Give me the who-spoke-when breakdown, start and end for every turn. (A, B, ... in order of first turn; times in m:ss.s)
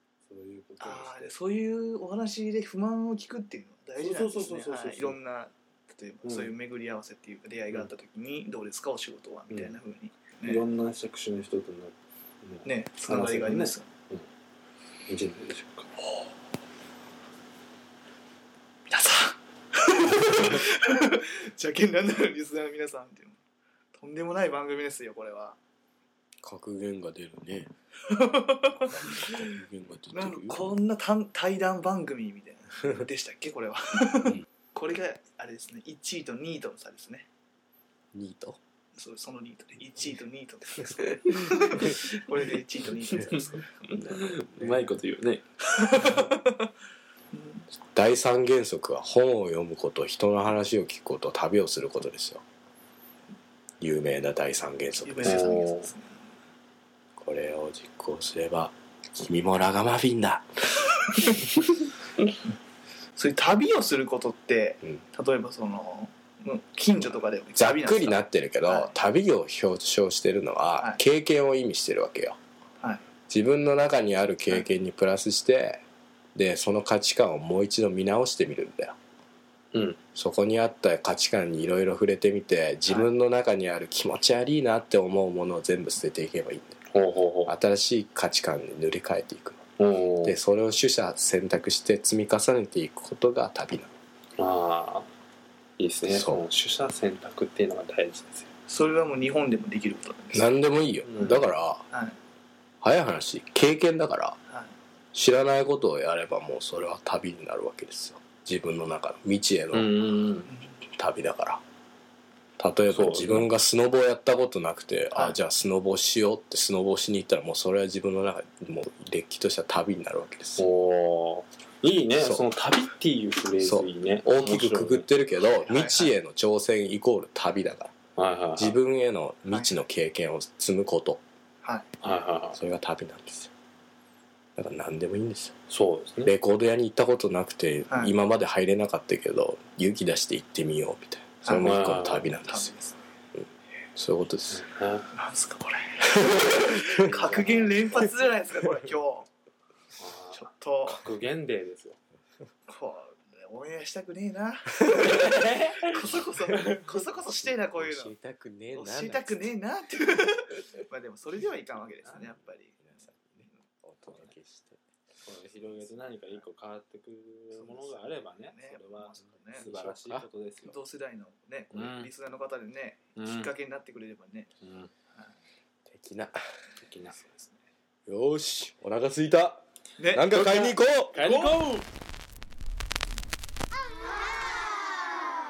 0:00.2-0:01.3 A
0:00.8-0:10.6 B
0:04.0-0:05.2 A
0:06.2-0:06.5 A
0:09.5-0:09.8 A
0:10.4-0:14.2 A
0:12.6-0:13.9 B
0:15.1-0:15.9 A
0:18.9-0:23.4 B
0:23.9-0:25.6 B
0:26.4-0:27.7 C
0:28.1-0:29.6 B
0:29.0-0:30.7 C
0:30.1-0:37.2 B
0:38.1-0:38.6 C
0:39.0-0:43.9 B
0:41.2-0:42.0 C
0:43.9-0:46.2 A
0:43.9-0:44.8 C
0:45.8-0:46.7 B
0:47.3-0:47.6 B
0:47.9-0:52.4 C
0:53.8-0:55.5 C
0:55.0-0:56.1 B
0:55.2-0:55.9 A
0:57.2-1:00.4 C
1:03.2-1:08.9 B
1:07.6-1:12.4 C
1:13.3-1:15.8 C
1:16.3-1:18.9 C
1:19.7-1:20.0 A
1:20.1-1:26.8 C
1:26.9-1:27.5 A
1:27.4-1:29.6 C
1:29.8-1:30.4 A
1:30.2-1:33.9 C
1:34.4-1:35.1 A
1:35.8-1:38.5 A
1:36.0-1:36.4 C
1:38.7-1:40.5 B
1:40.3-1:41.8 C
1:41.0-1:41.4 A
1:41.9-1:42.2 B
1:42.8-1:44.4 C
1:45.1-1:50.1 C
1:49.7-1:50.5 A
1:51.0-1:51.6 C
1:52.6-2:00.7 C
1:52.9-1:53.5 A
2:00.6-2:05.1 A
2:02.2-2:02.5 C
2:03.6-2:07.9 C
2:05.4-2:06.1 B
2:08.2-2:08.8 A
2:08.6-2:11.2 C
2:09.5-2:09.8 B
2:12.0-2:12.6 A
2:12.6-2:13.5 C
2:14.6-2:15.5 C
2:15.7-2:16.3 A
2:16.2-2:22.7 C
2:17.9-2:18.1 B
2:21.4-2:21.8 B
2:21.6-2:22.3 A
2:22.4-2:23.0 B
2:23.4-2:24.6 C
2:24.5-2:25.1 A
2:25.1-2:29.3 B
2:26.8-2:28.1 A
2:30.0-2:32.0 A
2:30.3-2:31.0 B
2:32.7-2:38.1 B
2:35.0-2:36.0 A
2:37.2-2:39.5 C
2:38.7-2:42.9 B
2:42.8-2:44.8 C
2:44.0-2:44.3 A
2:45.2-2:50.7 A
2:47.5-2:49.7 B
2:49.6-2:50.3 C
2:50.6-2:54.5 B
2:51.7-2:52.1 A
2:53.2-2:53.5 A
2:54.6-2:54.9 A
2:55.8-2:56.4 C
2:56.8-2:57.2 A
2:57.1-2:57.5 B
2:58.0-3:01.2 C
3:00.0-3:00.3 B
3:00.3-3:01.8 A
3:01.1-3:01.6 B